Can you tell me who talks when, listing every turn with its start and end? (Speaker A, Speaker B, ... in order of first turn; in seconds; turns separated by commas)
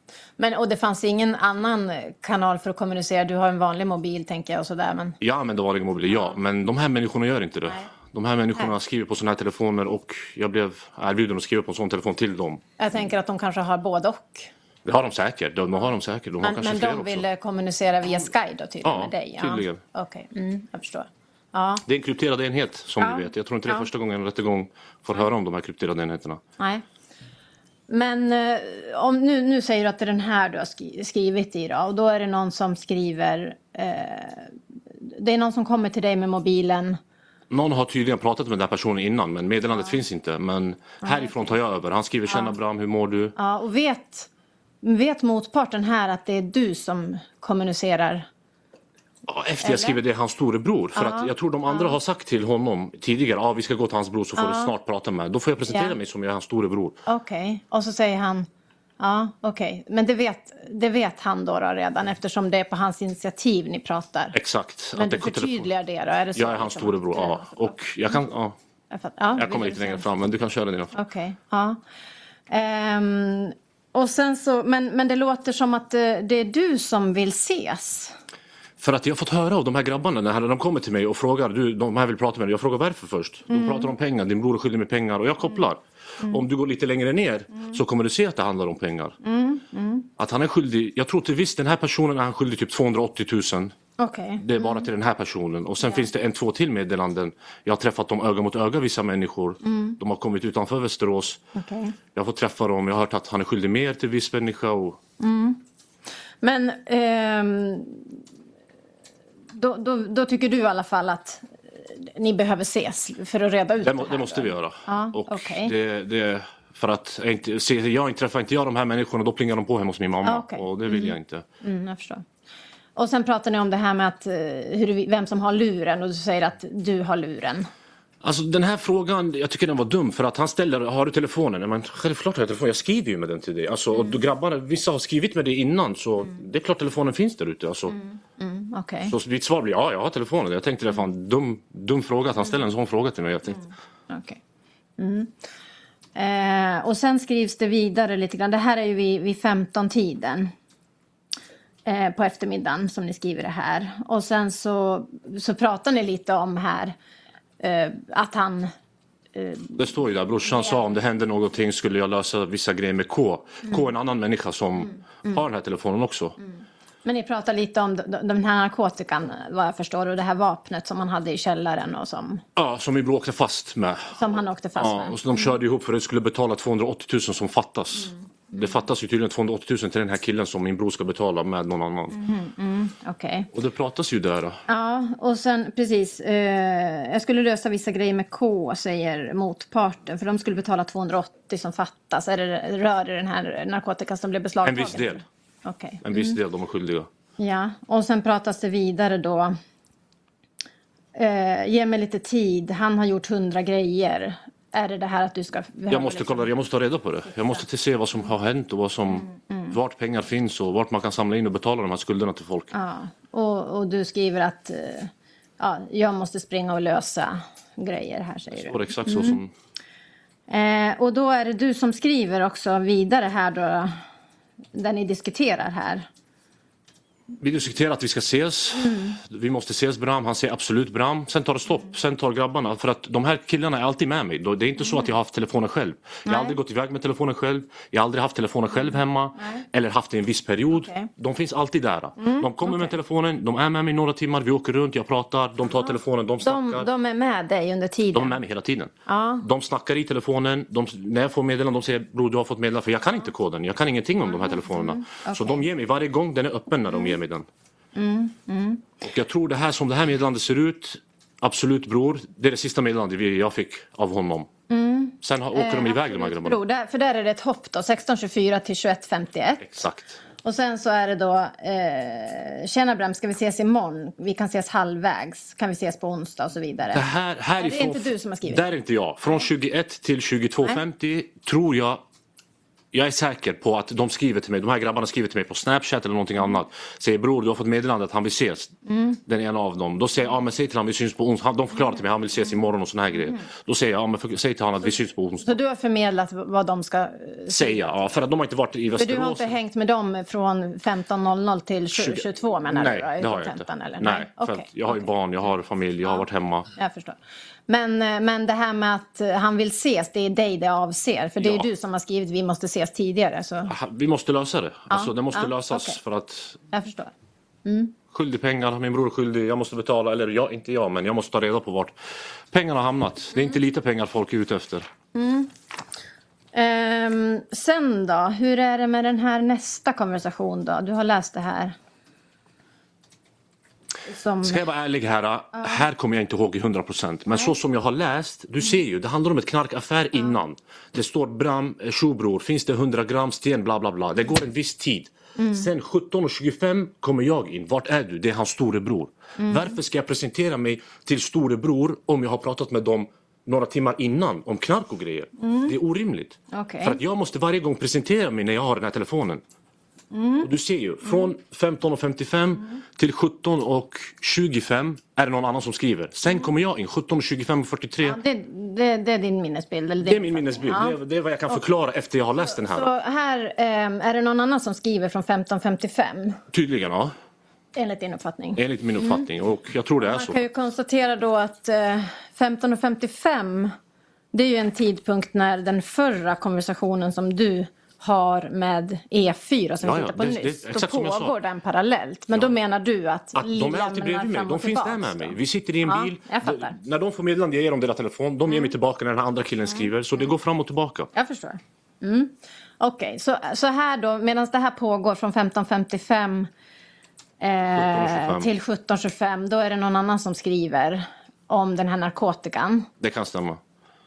Speaker A: 0.4-5.2, Speaker B: 5.2-12.6, Speaker A: 6.1-6.4, Speaker A: 12.8-14.5, Speaker B: 14.8-17.2, Speaker A: 16.4-21.8, Speaker B: 18.8-19.8, Speaker B: 21.9-26.4, Speaker A: 23.0-23.9, Speaker A: 26.6-26.8, Speaker A: 27.9-37.0, Speaker B: 37.5-43.4, Speaker A: 41.0-41.5, Speaker A: 42.3-42.5, Speaker A: 43.4-44.3, Speaker A: 44.8-48.3, Speaker B: 49.3-57.0, Speaker A: 49.6-50.0, Speaker A: 51.0-52.0, Speaker A: 54.4-54.7, Speaker A: 55.7-56.0, Speaker A: 57.1-58.5, Speaker A: 59.0-64.3, Speaker B: 64.3-65.7, Speaker A: 65.0-67.7, Speaker B: 66.4-68.6, Speaker A: 68.9-70.1, Speaker B: 69.4-70.9, Speaker A: 70.9-71.8, Speaker A: 72.5-78.2, Speaker B: 78.8-89.2, Speaker A: 83.5-83.9, Speaker A: 89.2-90.1, Speaker B: 90.2-93.7, Speaker A: 94.0-94.9, Speaker B: 94.4-101.4, Speaker A: 99.6-100.0, Speaker A: 101.5-102.0, Speaker B: 102.2-105.0, Speaker A: 105.2-105.6, Speaker A: 106.4-108.2, Speaker A: 109.5-115.7, Speaker B: 113.8-121.5, Speaker A: 120.2-122.2, Speaker A: 123.0-127.7, Speaker B: 128.2-138.0, Speaker A: 137.9-139.1, Speaker B: 139.1-143.6, Speaker A: 144.1-144.4, Speaker A: 145.0-145.4, Speaker A: 146.2-150.5, Speaker A: 151.8-157.0, Speaker A: 157.6-158.7, Speaker A: 159.3-159.8, Speaker B: 159.8-166.4, Speaker A: 160.5-160.8, Speaker A: 167.1-172.4, Speaker B: 172.6-182.2, Speaker A: 174.2-175.5, Speaker A: 178.0-178.8, Speaker A: 182.1-183.5, Speaker B: 183.5-184.6, Speaker A: 184.7-196.4, Speaker B: 194.6-195.2, Speaker B: 196.0-197.1, Speaker A: 197.4-199.6, Speaker A: 201.2-206.5, Speaker B: 205.9-212.7, Speaker A: 209.2-209.8, Speaker A: 212.7-219.4, Speaker B: 218.6-219.5, Speaker A: 220.5-224.0, Speaker A: 224.7-226.1, Speaker B: 227.4-246.9, Speaker A: 228.8-229.2, Speaker A: 236.3-236.6, Speaker A: 239.4-239.7, Speaker A: 240.8-241.1, Speaker A: 242.2-242.9, Speaker A: 245.9-248.4, Speaker B: 248.1-257.5, Speaker A: 249.1-249.5, Speaker A: 254.3-255.7, Speaker A: 256.9-257.2, Speaker A: 258.0-258.9, Speaker B: 259.0-264.5, Speaker A: 264.7-269.8, Speaker B: 265.2-266.6, Speaker B: 269.6-270.2, Speaker A: 270.4-277.0, Speaker B: 276.9-282.0, Speaker A: 277.6-278.7, Speaker B: 282.9-295.5, Speaker A: 288.9-289.2, Speaker A: 295.4-297.9, Speaker B: 297.5-299.6, Speaker A: 299.0-305.1, Speaker B: 301.9-306.7, Speaker A: 306.8-307.2, Speaker A: 307.7-313.7, Speaker B: 311.4-311.7, Speaker B: 313.7-316.6, Speaker A: 314.9-316.0, Speaker A: 316.7-317.1, Speaker A: 317.6-317.9, Speaker B: 318.1-324.9, Speaker A: 325.1-325.5, Speaker A: 326.5-331.8, Speaker A: 334.1-334.6, Speaker B: 334.4-359.4, Speaker A: 335.6-335.8, Speaker A: 345.4-345.7, Speaker A: 349.4-349.7, Speaker A: 355.4-355.8, Speaker A: 356.5-357.0, Speaker A: 360.1-360.5, Speaker B: 360.4-368.2, Speaker A: 361.0-361.3, Speaker A: 368.0-371.0, Speaker B: 370.0-372.9, Speaker A: 372.4-376.4, Speaker B: 376.5-377.1, Speaker A: 377.8-379.3, Speaker B: 378.6-380.4, Speaker A: 380.0-383.8, Speaker A: 384.3-396.8, Speaker B: 389.8-391.4, Speaker B: 393.4-401.1, Speaker A: 399.7-400.2, Speaker A: 401.1-406.5, Speaker A: 407.4-412.9, Speaker B: 407.8-408.5, Speaker B: 413.0-413.6